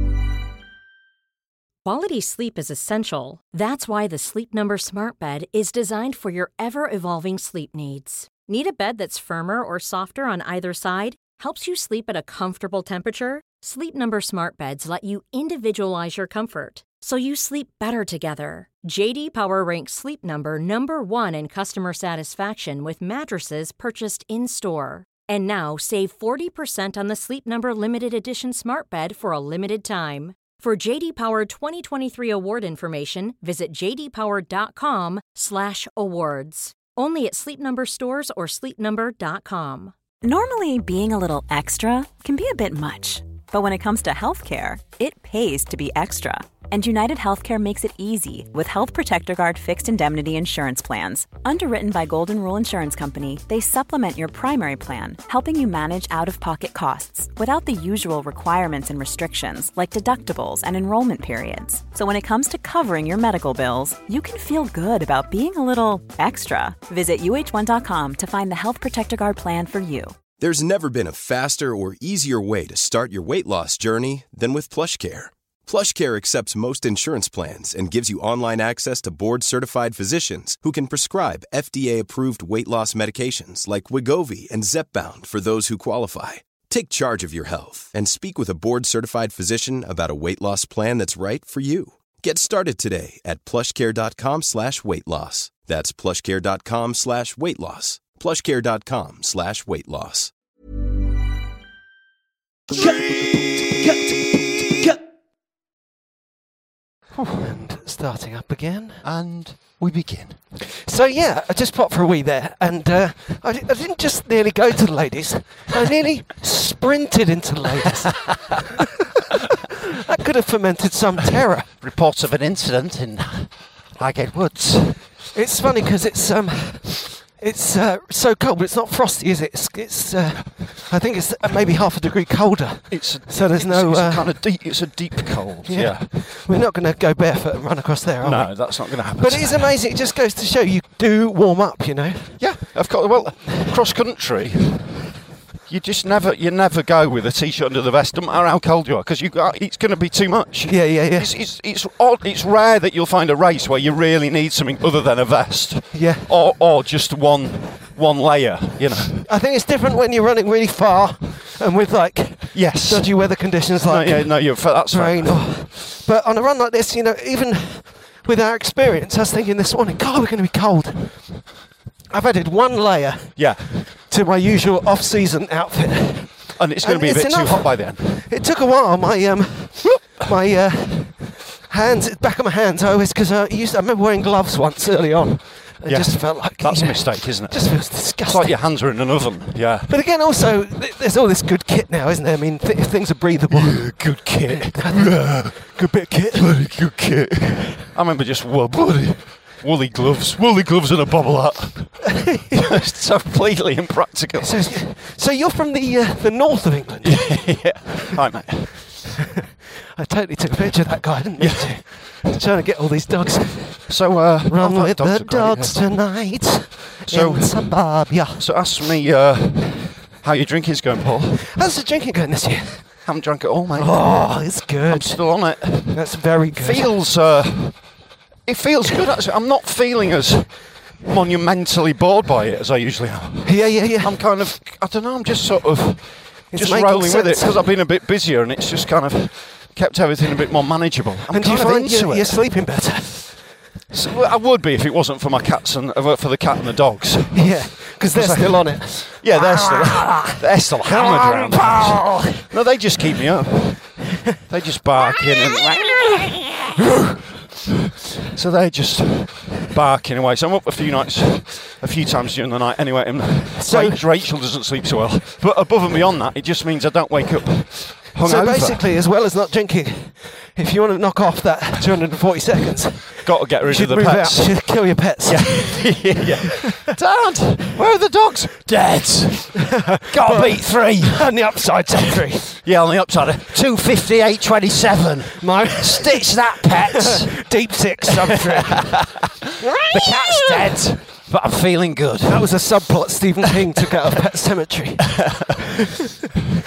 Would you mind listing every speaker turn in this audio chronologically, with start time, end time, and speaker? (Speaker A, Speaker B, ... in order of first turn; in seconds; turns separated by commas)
Speaker A: 1.8-39.9, Speaker B: 40.2-70.2, Speaker C: 70.4-100.3, Speaker D: 107.4-109.0, Speaker E: 109.0-110.4, Speaker D: 110.8-118.8, Speaker D: 120.0-121.7, Speaker E: 121.8-125.1, Speaker D: 125.3-134.9, Speaker E: 132.9-136.1, Speaker D: 135.6-142.7, Speaker E: 138.2-139.7, Speaker E: 142.4-145.0, Speaker E: 145.7-159.2, Speaker D: 150.7-151.3, Speaker D: 155.9-156.2, Speaker D: 159.2-171.5, Speaker E: 162.5-165.5, Speaker D: 172.1-188.6, Speaker E: 173.3-173.7, Speaker E: 176.6-178.1, Speaker E: 185.8-189.9, Speaker D: 189.9-196.6, Speaker E: 193.5-204.7, Speaker D: 202.5-202.7, Speaker D: 204.4-207.9, Speaker E: 207.0-209.0, Speaker D: 209.9-218.4, Speaker E: 211.4-212.0, Speaker E: 213.9-216.0, Speaker E: 217.1-221.4, Speaker D: 221.5-223.1, Speaker E: 223.0-242.5, Speaker D: 223.7-226.9, Speaker D: 233.4-234.2, Speaker D: 236.5-237.7, Speaker D: 241.3-243.4, Speaker E: 243.9-256.7, Speaker D: 247.3-252.5, Speaker E: 258.3-268.8, Speaker D: 263.6-264.0, Speaker D: 268.2-276.1, Speaker E: 273.2-281.4, Speaker D: 279.9-282.5, Speaker E: 282.6-287.4, Speaker D: 285.4-286.2, Speaker D: 287.1-289.1, Speaker D: 289.6-290.8, Speaker E: 289.9-292.7, Speaker D: 292.3-295.6